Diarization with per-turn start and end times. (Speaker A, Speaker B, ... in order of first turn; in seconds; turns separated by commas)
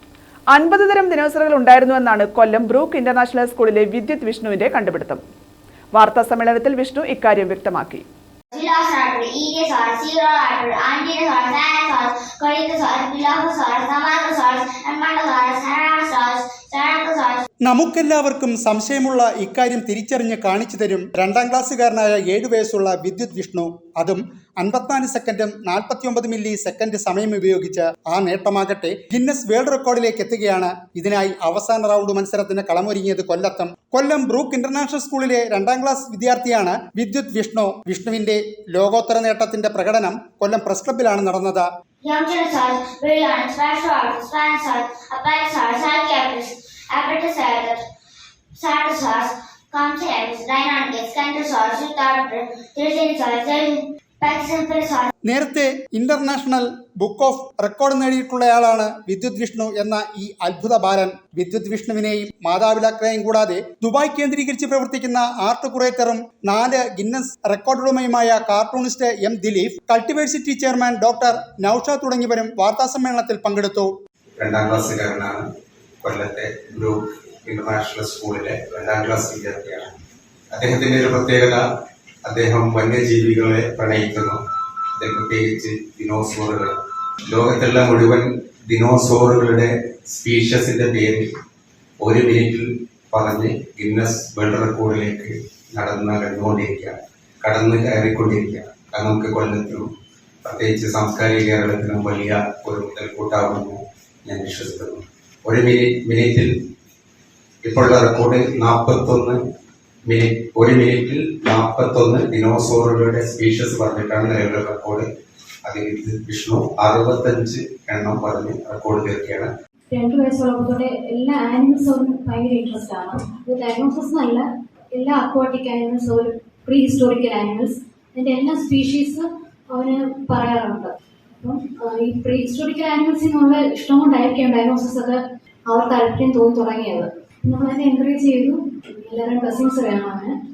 Speaker A: 0.5-5.2, Speaker A: 5.9-8.0, Speaker B: 8.5-17.4, Speaker C: 17.7-41.6, Speaker B: 42.0-47.9, Speaker B: 48.5-55.1, Speaker C: 55.3-73.9, Speaker D: 74.4-75.5, Speaker D: 76.0-79.9, Speaker D: 80.5-81.6, Speaker D: 82.2-84.4, Speaker D: 85.0-86.8, Speaker D: 87.3-91.3, Speaker D: 92.0-99.9, Speaker D: 100.4-106.5, Speaker D: 107.6-109.4, Speaker D: 110.1-115.1, Speaker D: 115.7-119.5, Speaker E: 119.9-140.3